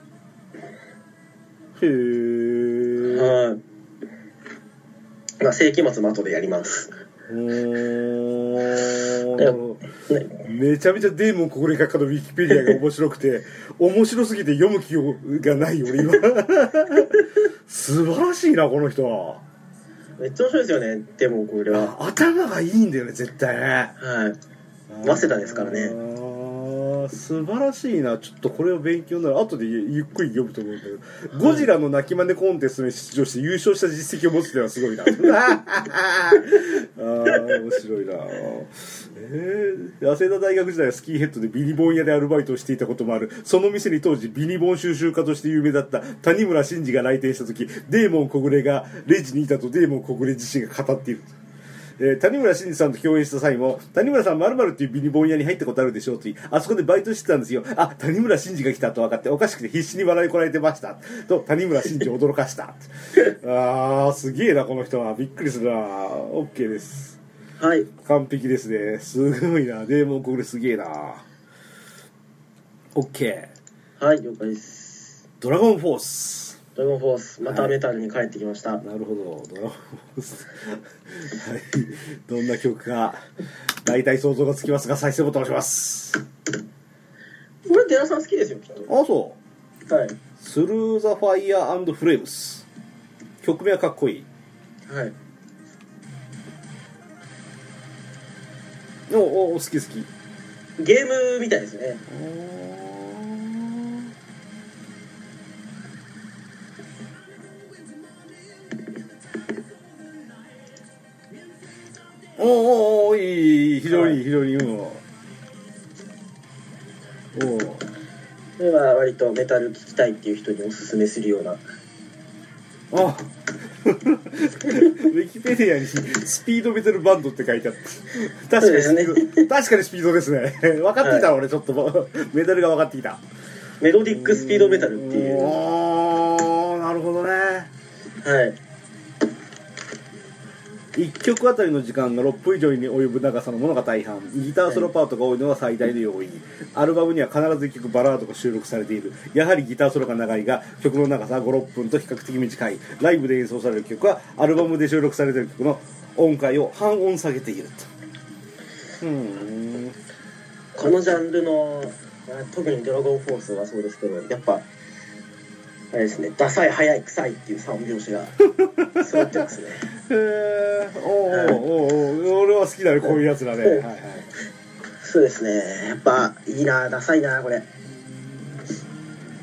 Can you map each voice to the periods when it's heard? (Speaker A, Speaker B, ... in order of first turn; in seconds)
Speaker A: 1.8-3.4, 7.3-9.8, 10.4-19.4, 21.7-23.9, 24.9-51.3, 52.0-67.2, 68.0-71.2, 72.9-73.5, 75.4-76.6, 77.5-77.8, 78.8-83.2, 83.8-86.2, 88.9-89.4, 90.4-92.7, 93.4-94.3, 99.1-100.1, 102.1-104.1, 112.4-115.0, 117.3-117.8, 122.9-133.2, 134.1-137.7, 140.9-157.9, 159.0-160.0, 168.5-169.4, 170.1-174.3, 178.1-178.8
Speaker B: 3.0-3.6, 5.4-6.9, 9.4-10.3, 20.2-21.9, 24.0-24.4, 25.0-26.0, 31.4-31.7, 67.6-67.9, 74.0-75.2, 76.8-78.8, 87.7-88.9, 89.9-90.2, 94.9-95.2, 100.8-102.0, 113.9-114.2, 118.6-121.6, 128.6-129.5, 131.0-131.3, 133.8-135.6, 138.2-138.6, 160.8-164.7, 165.9-168.4, 169.0-169.9, 171.3-171.6, 175.0-177.7